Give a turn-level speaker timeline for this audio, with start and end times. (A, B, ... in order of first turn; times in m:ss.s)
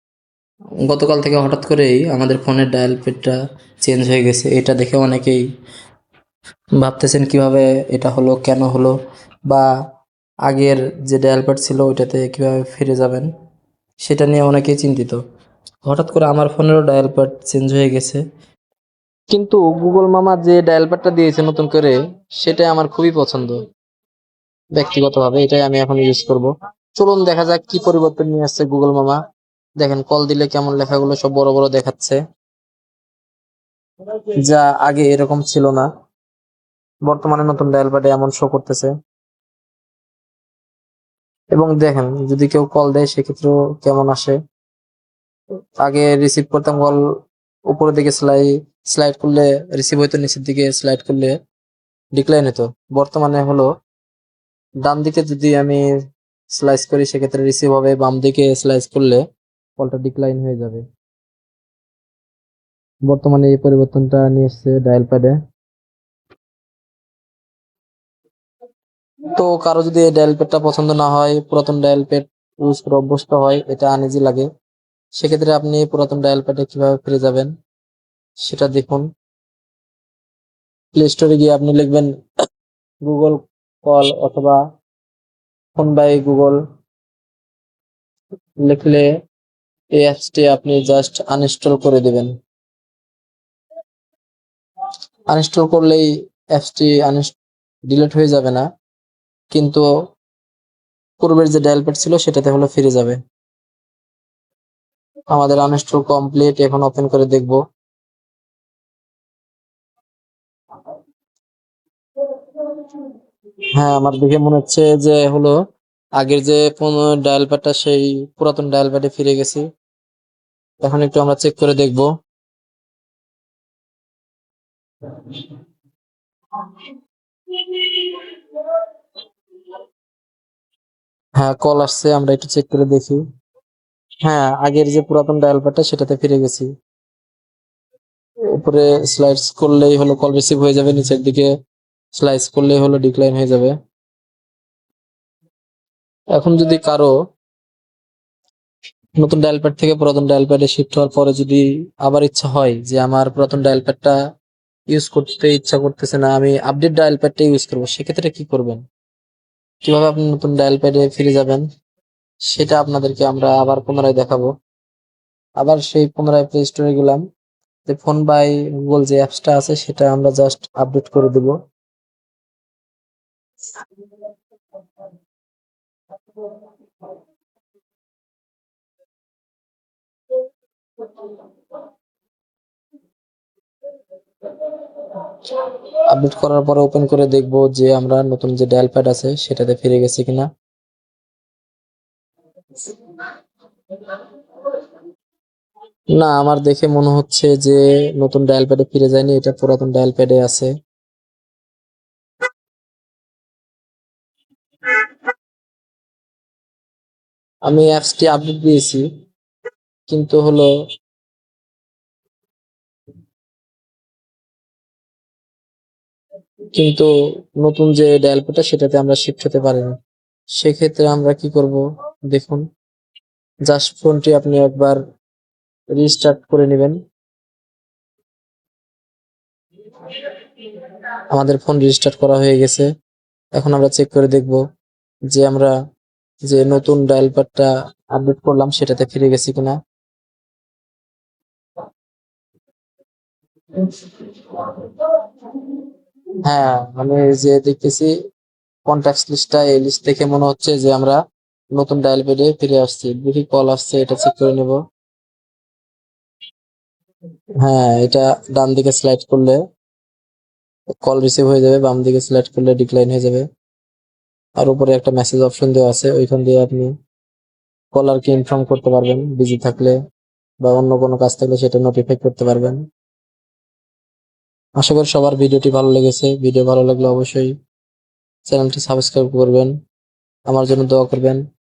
0:00.8-0:05.4 A
0:06.8-0:09.0 A
0:10.4-0:13.3 A
0:14.0-0:15.2 A
0:15.8-0:18.2 A
0:19.3-0:23.6 A
0:24.8-0:29.2 A
0:29.8-0:32.2 A
0:34.4-0:35.9 A
0:37.1-0:38.9 A
0:41.5-0:44.4 A
0:45.8-0:47.0 A
0:47.7-0:51.4 A
0:52.2-0:53.7 A
0:54.8-0:55.8 A
0:56.5-0:59.2 A
0:59.8-1:00.8 A
1:03.1-1:05.4 A
1:09.4-1:14.5 A
1:15.2-1:17.5 A
1:18.4-1:19.1 A
1:20.9-1:22.1 A
1:23.0-1:24.6 A
1:25.8-1:26.6 A
1:28.6-1:29.1 A
1:30.0-1:32.3 A
1:35.3-1:37.4 A
1:37.9-1:38.6 A
1:39.5-1:39.8 A
1:41.2-1:43.2 A
1:45.3-1:47.6 A
1:52.6-1:53.0 A
1:53.8-1:55.6 A
1:56.2-1:59.6 A
2:00.8-2:02.1 A
2:05.1-2:05.5 A
2:06.6-2:06.9 A
2:07.5-2:08.8 A
2:11.4-2:13.2 A
2:14.2-2:16.7 A
2:18.5-2:21.5 A
2:22.1-2:23.8 A
2:26.3-2:27.2 A
2:29.2-2:34.2 A
2:34.9-2:38.8 A
2:39.8-2:41.7 A
2:42.5-2:44.5 A
2:45.6-2:47.2 A
2:47.9-2:51.6 A
3:01.0-3:01.4 A
3:04.5-3:10.5 A
3:14.0-3:14.8 A
3:16.1-3:20.7 A
3:27.7-3:29.1 A
3:30.1-3:30.7 A
3:36.7-3:40.0 A
3:40.6-3:42.6 A
3:43.7-3:45.0 A
3:45.9-3:47.0 A
3:50.0-3:52.9 A
3:53.6-3:54.6 A
3:55.3-3:55.7 A
3:56.5-3:59.8 A
4:03.8-4:05.7 A
4:06.4-4:08.1 A
4:08.9-4:11.2 A
4:11.7-4:14.8 A
4:17.6-4:19.6 A
4:21.0-4:23.5 A
4:24.6-4:26.9 A
4:27.9-4:30.0 A
4:30.6-4:32.8 A
4:34.8-4:37.5 A
4:38.5-4:39.7 A
4:40.5-4:41.4 A